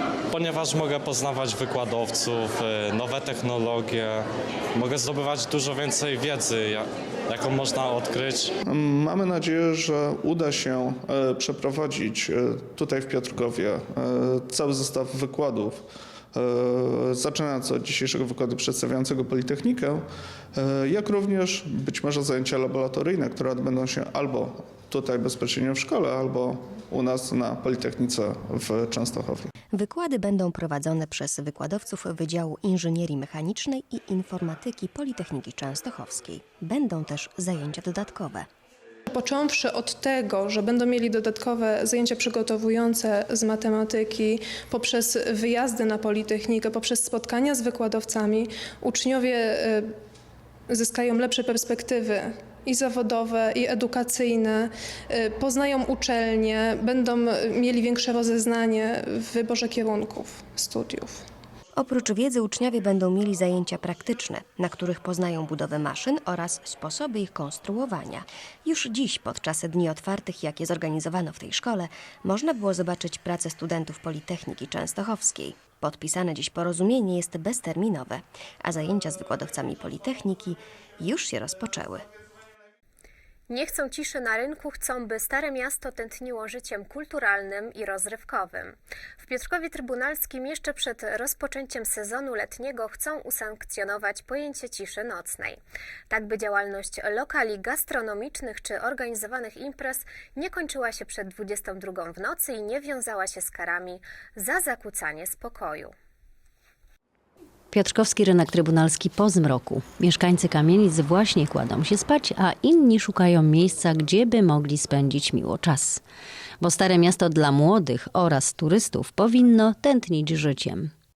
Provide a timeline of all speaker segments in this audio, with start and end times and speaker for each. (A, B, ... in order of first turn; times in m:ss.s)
0:00.3-0:08.5 A
0:08.7-0:15.8 B
0:16.4-0:20.0 B
0:20.6-0:29.5 B
0:29.7-0:38.4 C
0:39.1-0:49.9 D
0:50.7-1:01.2 D
1:01.8-1:22.0 C
1:23.5-1:45.9 E
1:47.7-1:56.0 F
1:56.6-2:00.9 F